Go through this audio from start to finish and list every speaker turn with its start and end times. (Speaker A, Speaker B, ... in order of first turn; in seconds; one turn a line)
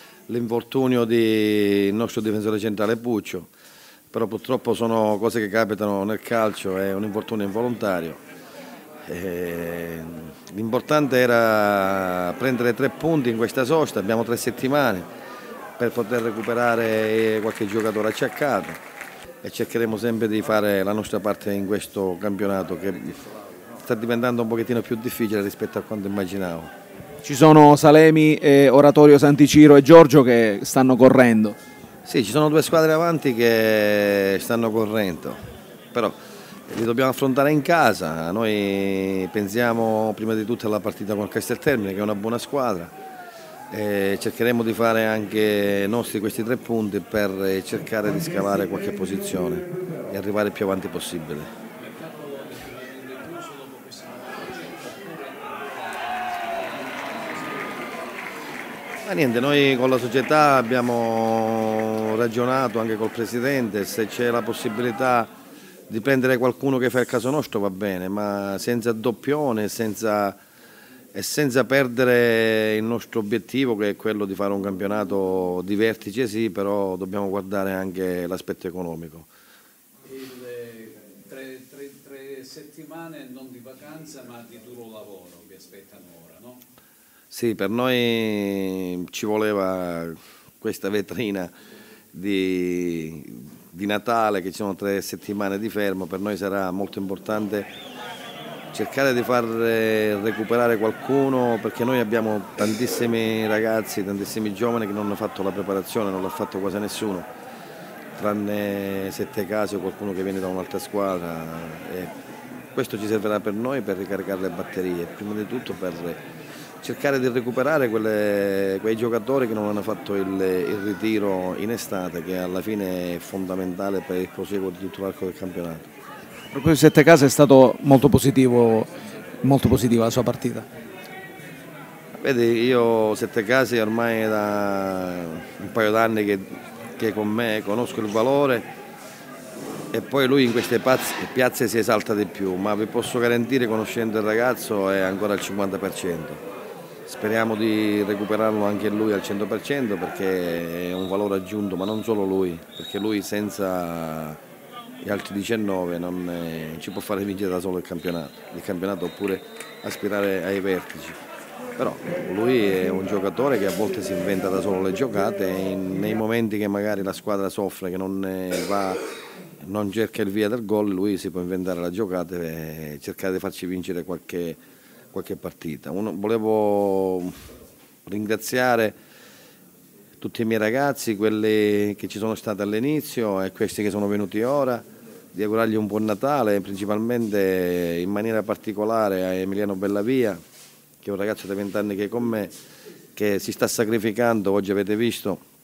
Speaker A: 0.3-3.5
Speaker A: 4.1-8.2
Speaker A: 9.1-15.1
Speaker A: 15.8-18.8
Speaker A: 19.4-23.2
Speaker A: 23.8-26.7
Speaker B: 27.2-31.6
Speaker A: 32.0-35.4
Speaker A: 36.7-42.9
Speaker A: 43.7-51.5
Speaker C: 51.8-57.9
Speaker A: 59.0-65.3
Speaker A: 65.9-70.4
Speaker A: 71.1-79.3
Speaker C: 80.0-86.6
Speaker A: 87.3-91.5
Speaker A: 92.1-97.7
Speaker A: 98.7-107.3
Speaker A: 108.2-112.1
Speaker A: 112.7-116.2
Speaker A: 116.8-125.9
Speaker B: 126.5-128.9
Speaker B: 129.4-130.7
Speaker A: 132.2-138.7
Speaker A: 139.9-146.4
Speaker A: 147.1-154.4
Speaker A: 155.0-161.2
Speaker A: 161.8-169.0
Speaker A: 169.6-174.6
Speaker A: 175.1-177.4
Speaker A: 178.1-179.0
Speaker A: 180.2-190.4
Speaker A: 191.0-192.5
Speaker A: 193.2-195.4